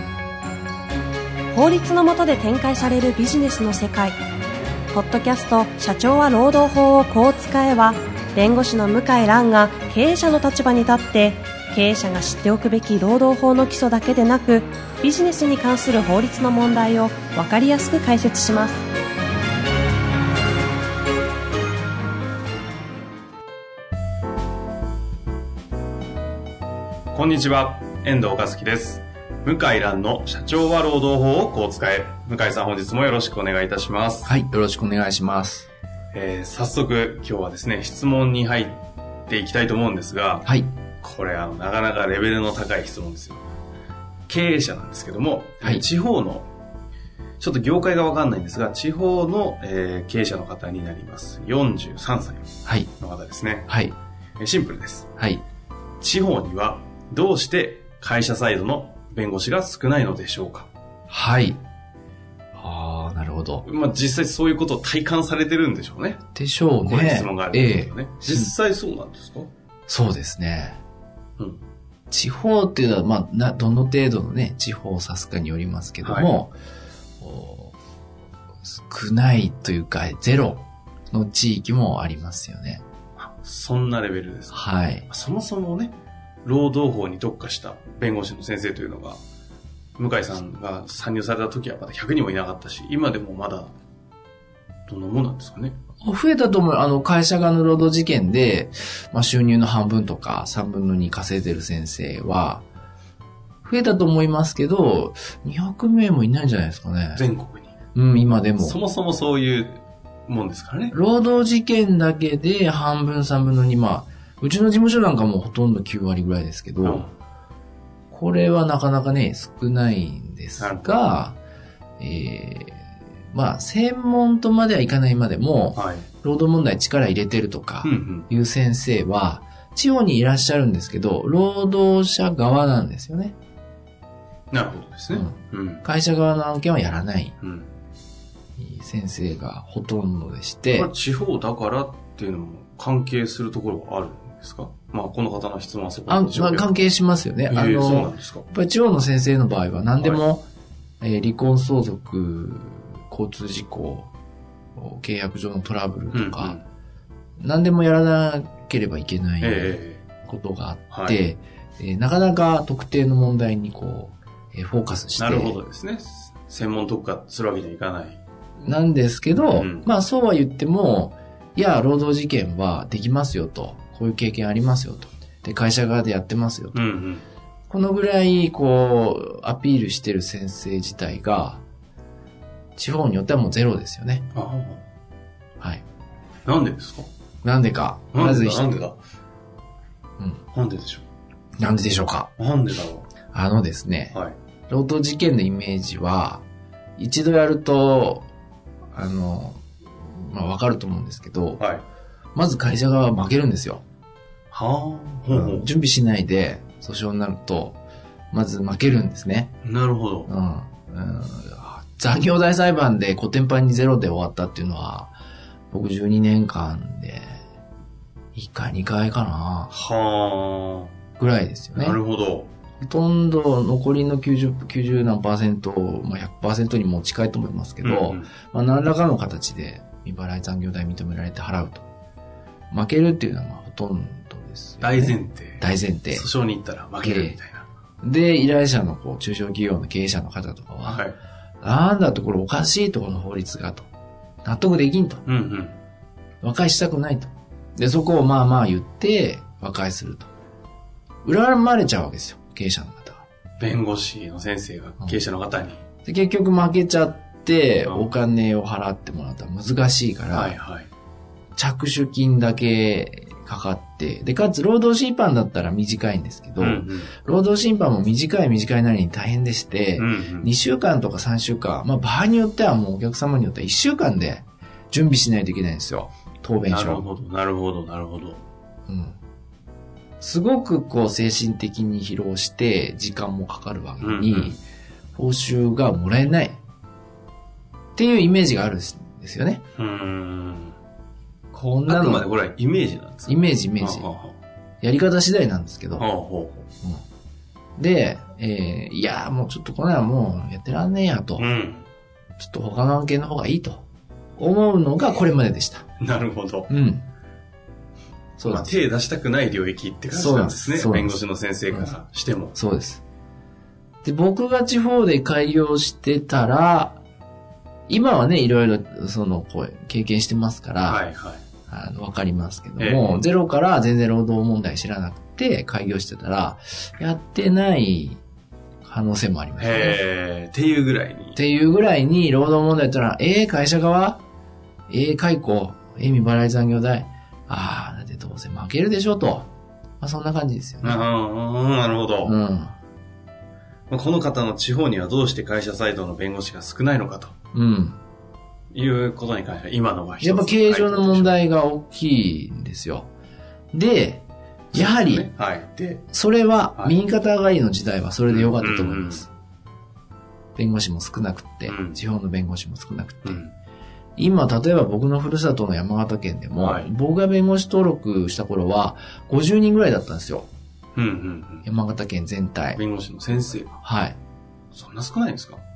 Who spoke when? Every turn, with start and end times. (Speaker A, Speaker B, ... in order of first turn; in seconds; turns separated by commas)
Speaker A: 1.5-4.2, Speaker A: 4.9-18.9, Speaker B: 27.1-34.4, Speaker C: 34.2-35.7, Speaker B: 36.1-43.4, Speaker C: 40.5-40.7, Speaker B: 44.3-46.5, Speaker B: 47.4-53.7, Speaker C: 52.6-52.9, Speaker C: 53.7-54.0, Speaker B: 54.4-55.1, Speaker C: 55.2-55.4, Speaker B: 56.0-60.7, Speaker C: 61.1-61.6, Speaker C: 62.6-63.6, Speaker B: 63.6-66.2, Speaker C: 66.3-68.5, Speaker B: 66.8-69.5, Speaker C: 69.9-70.8, Speaker B: 71.4-71.6, Speaker C: 72.1-76.5, Speaker B: 76.0-76.4, Speaker C: 77.2-77.7, Speaker C: 78.7-82.8, Speaker B: 83.2-89.2, Speaker C: 84.5-85.1, Speaker B: 90.0-93.7, Speaker B: 94.9-95.8, Speaker C: 96.0-102.6, Speaker C: 103.6-107.2, Speaker B: 107.2-107.7, Speaker C: 108.0-108.8, Speaker B: 108.6-111.0, Speaker C: 110.9-117.1, Speaker B: 116.8-117.1, Speaker C: 118.1-121.4, Speaker B: 120.6-121.0, Speaker C: 122.0-133.3, Speaker B: 125.7-126.1, Speaker B: 127.8-128.3, Speaker B: 134.5-135.8, Speaker C: 135.1-137.4, Speaker B: 137.4-137.7, Speaker C: 138.6-140.9, Speaker B: 140.7-146.9, Speaker C: 146.1-150.5, Speaker B: 147.5-148.5, Speaker B: 150.0-150.2, Speaker C: 151.0-154.1, Speaker C: 154.8-156.6, Speaker B: 156.1-156.6, Speaker C: 157.4-165.6, Speaker B: 159.4-160.0, Speaker B: 160.9-161.2, Speaker B: 165.2-168.2, Speaker C: 168.6-176.8, Speaker B: 169.5-169.9, Speaker B: 176.7-177.2, Speaker C: 177.7-181.6, Speaker C: 182.8-184.3, Speaker B: 184.3-184.8, Speaker B: 186.5-187.1, Speaker C: 187.4-188.8, Speaker B: 188.1-189.0, Speaker B: 190.5-191.1, Speaker C: 191.6-192.3, Speaker B: 192.4-193.1, Speaker C: 193.3-194.2, Speaker C: 194.7-196.4, Speaker C: 197.0-198.3, Speaker C: 198.9-201.6, Speaker B: 201.6-201.8, Speaker C: 202.3-203.8, Speaker B: 204.5-205.7, Speaker C: 205.3-207.8, Speaker C: 208.3-209.6, Speaker B: 209.6-210.3, Speaker C: 210.3-215.1, Speaker C: 215.7-217.4, Speaker C: 218.3-219.7, Speaker B: 219.7-220.9, Speaker C: 221.2-222.0, Speaker B: 221.7-222.5, Speaker C: 222.8-231.9, Speaker B: 227.8-228.3, Speaker C: 232.7-236.3, Speaker B: 234.8-237.7, Speaker C: 237.0-237.4, Speaker C: 238.0-241.1, Speaker B: 240.8-241.2, Speaker C: 241.6-243.9, Speaker C: 244.4-245.2, Speaker B: 245.2-245.8, Speaker C: 246.4-250.3, Speaker C: 251.2-253.2, Speaker B: 253.6-255.8, Speaker C: 256.1-260.6, Speaker B: 257.9-258.1, Speaker B: 260.3-260.9, Speaker C: 261.6-277.1, Speaker B: 266.6-267.1, Speaker B: 270.0-270.5, Speaker B: 276.7-278.4, Speaker C: 278.9-279.2, Speaker C: 280.2-284.6, Speaker B: 284.0-284.6, Speaker C: 285.1-286.6, Speaker C: 288.0-289.6, Speaker B: 289.8-290.8, Speaker C: 291.5-292.3, Speaker B: 291.9-294.4, Speaker C: 293.3-294.1, Speaker C: 294.8-296.1, Speaker B: 296.0-296.7, Speaker C: 297.8-301.5, Speaker B: 301.4-301.9, Speaker C: 302.4-303.8, Speaker C: 304.4-305.9, Speaker B: 306.0-306.7, Speaker C: 306.7-307.1, Speaker C: 308.4-308.7, Speaker B: 308.4-312.6, Speaker C: 310.1-311.2, Speaker C: 312.6-313.0, Speaker C: 314.0-317.0, Speaker C: 317.9-321.0, Speaker B: 320.8-321.4, Speaker C: 321.7-328.2, Speaker B: 322.8-323.3, Speaker C: 328.8-330.0, Speaker B: 329.6-331.4, Speaker C: 331.4-334.2, Speaker C: 334.9-341.1, Speaker B: 340.8-342.4, Speaker C: 342.2-342.8, Speaker B: 343.9-347.3, Speaker C: 347.5-348.0, Speaker B: 348.7-351.4, Speaker C: 350.2-353.1, Speaker C: 353.7-355.3, Speaker B: 354.7-356.1, Speaker C: 356.1-359.3, Speaker B: 358.3-359.3, Speaker C: 360.6-363.4, Speaker B: 361.7-362.0, Speaker B: 363.2-363.5, Speaker C: 364.2-370.5, Speaker B: 366.6-366.9, Speaker B: 370.9-371.7, Speaker C: 371.6-372.8, Speaker B: 372.7-373.8, Speaker C: 373.8-374.2, Speaker B: 374.7-375.6